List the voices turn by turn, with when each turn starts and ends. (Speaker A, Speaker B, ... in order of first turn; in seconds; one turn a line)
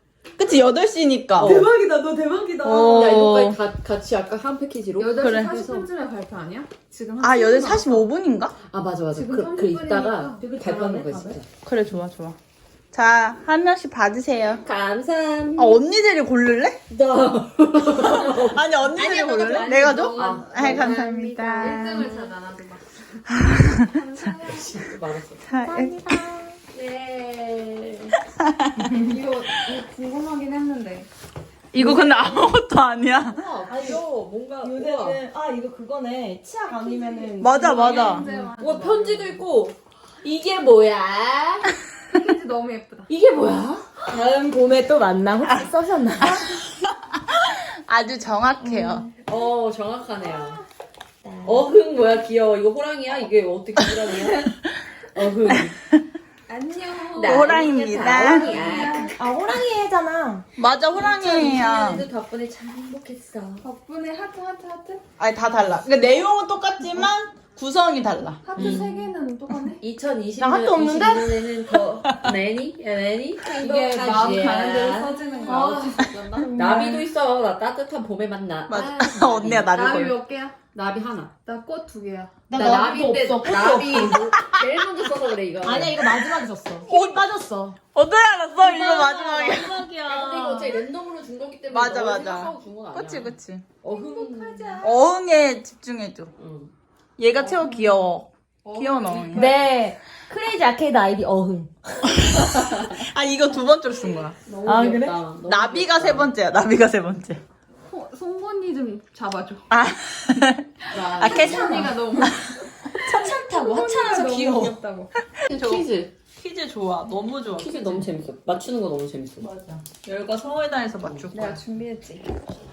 Speaker A: 0.4-1.7
Speaker B: 1.4-3.3
Speaker A: 2.6-3.6
Speaker C: 2.8-5.4
Speaker D: 5.0-8.1
Speaker A: 5.2-5.7
Speaker A: 7.2-8.6
Speaker C: 8.7-11.4
Speaker D: 9.1-10.4
Speaker B: 10.4-11.4
Speaker A: 11.6-12.4
Speaker A: 12.9-14.6
Speaker C: 14.6-15.8
Speaker A: 15.6-16.8
Speaker C: 16.9-18.9
Speaker A: 18.0-22.1
Speaker D: 18.8-24.7
Speaker C: 19.4-22.2
Speaker A: 23.4-23.9
Speaker C: 24.2-25.4
Speaker A: 25.4-26.2
Speaker B: 25.7-26.6
Speaker C: 26.7-28.1
Speaker A: 28.3-28.9
Speaker B: 28.8-29.1
Speaker D: 29.0-31.1
Speaker A: 31.7-33.4
Speaker C: 33.3-35.2
Speaker B: 33.6-34.0
Speaker B: 34.6-38.5
Speaker D: 36.7-39.4
Speaker A: 37.4-38.2
Speaker C: 38.6-41.7
Speaker D: 42.1-43.1
Speaker C: 43.1-43.4
Speaker B: 43.2-46.6
Speaker A: 46.2-49.1
Speaker B: 48.6-49.1
Speaker C: 49.2-50.6
Speaker B: 51.2-51.6
Speaker C: 51.4-54.5
Speaker C: 55.1-55.8
Speaker D: 56.5-59.2
Speaker C: 57.1-59.1
Speaker A: 57.2-58.5
Speaker B: 58.6-60.5
Speaker A: 60.6-62.0
Speaker C: 60.9-63.6
Speaker D: 63.6-65.0
Speaker A: 65.2-68.5
Speaker D: 68.4-69.8
Speaker C: 68.5-68.9
Speaker B: 68.6-68.8
Speaker C: 69.8-75.7
Speaker B: 70.4-71.4
Speaker A: 71.7-72.3
Speaker D: 73.5-77.0
Speaker A: 74.2-74.7
Speaker A: 75.5-76.5
Speaker C: 76.5-79.7
Speaker A: 78.7-80.2
Speaker D: 78.7-80.6
Speaker C: 80.7-81.3
Speaker D: 81.4-82.4
Speaker B: 82.5-84.4
Speaker C: 82.5-86.3
Speaker A: 84.4-84.7
Speaker B: 85.6-87.8
Speaker A: 86.8-87.3
Speaker A: 87.9-90.2
Speaker C: 88.6-94.8
Speaker B: 89.0-90.8
Speaker A: 91.7-93.7
Speaker D: 93.8-95.0
Speaker A: 94.8-96.3
Speaker C: 96.4-96.7
Speaker A: 97.2-99.5
Speaker D: 97.4-97.9
Speaker D: 98.6-99.6
Speaker B: 99.3-101.7
Speaker A: 102.0-107.4
Speaker C: 104.5-106.3
Speaker D: 107.9-109.7
Speaker A: 109.7-112.3
Speaker D: 110.8-115.1
Speaker C: 111.0-111.8
Speaker B: 111.2-111.9
Speaker B: 113.0-114.8
Speaker A: 115.4-118.1
Speaker C: 115.5-116.2
Speaker C: 117.5-119.5
Speaker A: 119.4-121.6
Speaker D: 121.3-122.4